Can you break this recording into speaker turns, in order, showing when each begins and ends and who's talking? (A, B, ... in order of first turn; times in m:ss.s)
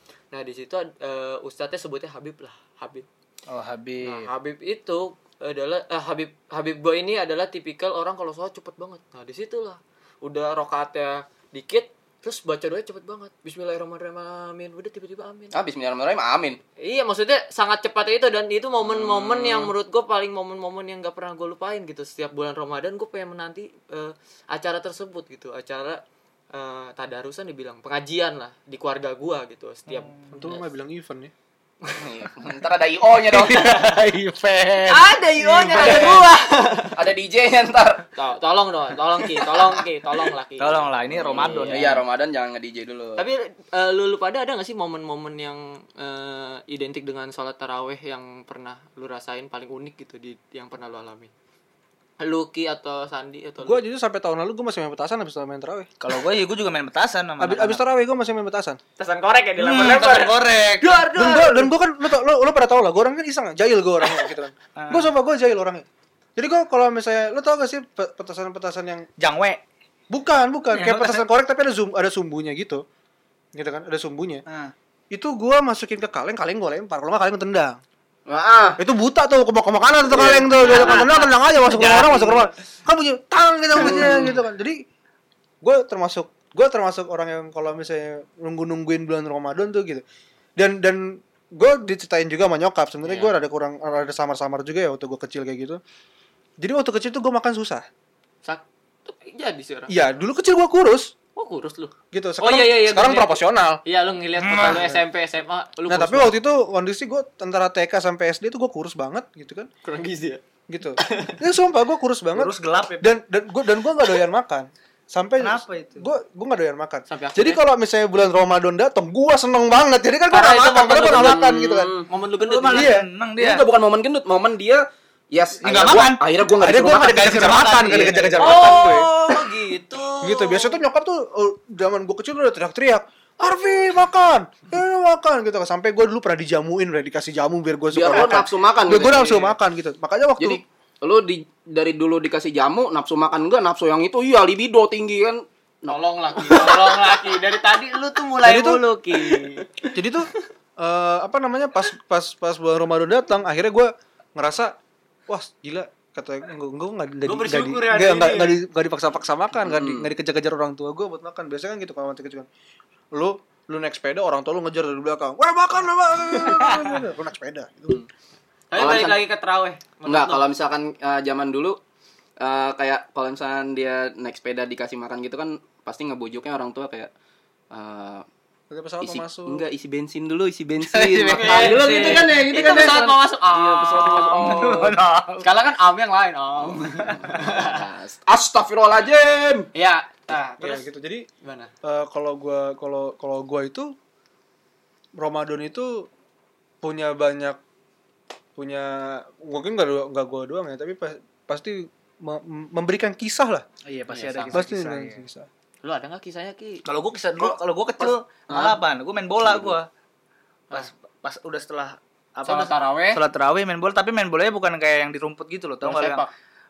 0:00.3-0:03.0 A
0:03.5-0:04.3 B
0:04.0-0:15.6 A
0:15.5-0:16.6 C
0:16.8-0:26.0 A
0:18.8-0:19.7 C
0:26.5-0:30.6 A
0:30.3-0:31.3 D
0:32.0-0:33.7 C
0:33.4-0:35.0 B
0:33.5-0:33.8 A
0:34.9-0:37.0 A
0:35.5-0:36.3 C
0:35.7-0:36.1 B
0:36.9-0:38.1 C
0:38.2-0:42.0 A
0:40.6-0:42.0 B
0:41.3-0:43.2 C
0:43.2-0:51.3 A
0:52.2-0:53.8 A
0:53.6-0:55.9 D
0:56.0-0:57.8 B
0:57.4-0:58.8 D
0:59.0-1:01.7 A
0:59.6-1:00.9 B
1:01.1-1:05.8 D
1:04.8-1:05.1 B
1:06.4-1:09.1 D
1:09.2-1:09.6 B
1:10.1-1:12.8 D
1:10.7-1:11.2 B
1:13.5-1:14.4 D
1:14.5-1:14.7 B
1:15.1-1:17.8 D
1:18.3-1:18.8 C
1:18.8-1:24.8 D
1:20.1-1:21.1 C
1:20.6-1:22.4 B
1:23.8-1:24.3 C
1:23.8-1:24.3 B
1:25.6-1:30.0 D
1:30.6-1:35.8 D
1:33.0-1:33.3 A
1:36.6-1:37.8 D
1:38.4-1:39.9 A
1:39.9-1:41.1 D
1:41.3-1:46.4 A
1:42.1-1:43.8 D
1:44.4-1:44.8 B
1:44.5-1:45.0 D
1:45.9-1:49.7 D
1:49.8-1:50.4 A
1:50.7-2:01.9 D
1:51.0-1:51.4 A
1:52.3-1:53.2 B
1:55.4-1:56.1 B
1:57.1-1:57.6 A
2:00.3-2:01.5 A
2:01.1-2:02.1 C
2:02.1-2:02.9 A
2:02.5-2:03.6 B
2:02.7-2:03.1 D
2:03.4-2:08.6 C
2:05.6-2:06.2 B
2:06.6-2:09.1 D
2:07.0-2:08.4 B
2:08.4-2:10.8 A
2:10.2-2:20.6 D
2:17.9-2:19.5 C
2:20.4-2:27.0 C
2:25.8-2:29.7 A
2:28.4-2:28.8 D
2:29.9-2:30.3 D
2:30.8-2:34.7 D
2:35.3-2:42.5 D
2:37.4-2:38.6 A
2:39.6-2:40.1 C
2:43.1-2:48.0 D
2:46.3-2:46.9 B
2:48.7-2:50.4 A
2:48.7-2:49.2 C
2:50.0-2:51.8 C
2:52.4-2:57.1 C
2:57.7-2:58.2 C
2:58.7-2:59.6 D
2:59.0-3:05.0 C
3:00.8-3:02.3 B
3:01.3-3:04.9 A
3:04.0-3:05.4 B
3:05.4-3:07.8 A
3:06.6-3:09.7 C
3:09.7-3:10.8 A
3:10.6-3:11.2 D
3:11.4-3:11.7 A
3:11.8-3:13.9 D
3:15.2-3:16.1 D
3:16.8-3:17.6 D
3:18.6-3:23.6 D
3:23.9-3:25.2 B
3:24.1-3:24.6 A
3:24.5-3:25.5 D
3:25.8-3:26.8 A
3:26.8-3:29.9 B
3:27.4-3:28.8 C
3:29.4-3:29.8 C
3:30.7-3:36.2 B
3:32.4-3:33.2 C
3:35.8-3:36.3 A